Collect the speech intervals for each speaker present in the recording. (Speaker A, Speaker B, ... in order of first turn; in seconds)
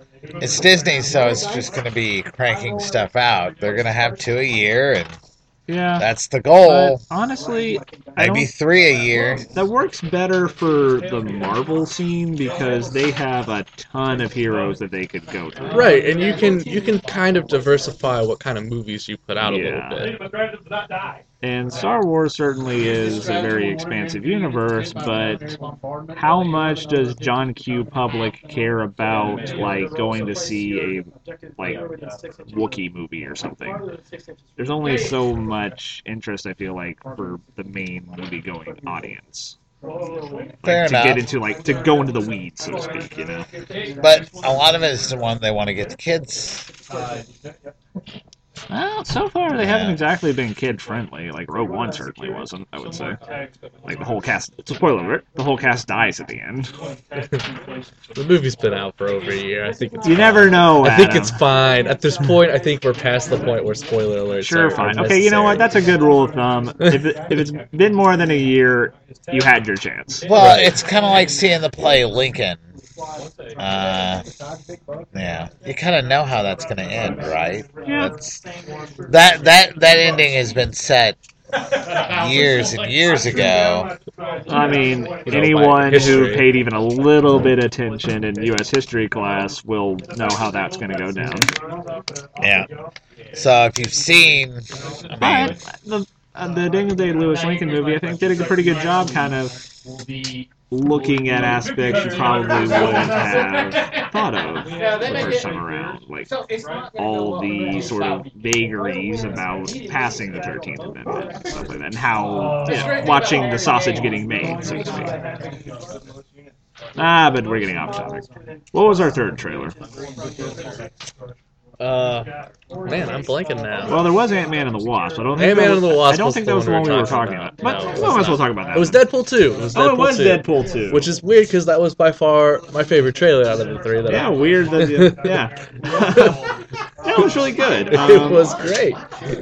Speaker A: 0.4-5.1, 6.0-7.0, 8.2-9.4, 40.6-41.2, 44.0-46.6, 49.5-50.0, 70.2-72.6, 73.6-74.2, 75.1-78.4, 79.1-81.2, 82.1-83.9, 92.4-92.7, 93.3-95.5
Speaker B: 5.7-6.0, 6.6-8.5, 9.5-15.9, 19.4-20.0, 21.4-25.5, 26.1-31.8, 32.5-33.8, 34.6-39.5, 40.6-43.5, 48.7-53.2, 53.9-56.7, 60.0-61.4, 64.4-70.2, 77.8-78.1, 84.5-91.5, 95.2-99.5, 100.7-106.3, 107.0-115.1, 117.0-119.7, 123.9-129.0, 129.7-131.0, 134.1-136.4, 137.0-138.5
Speaker C: 15.7-20.1, 58.1-65.6, 70.3-70.7, 85.3-86.5, 121.8-122.3, 122.8-124.0, 125.3-135.2, 137.9-139.0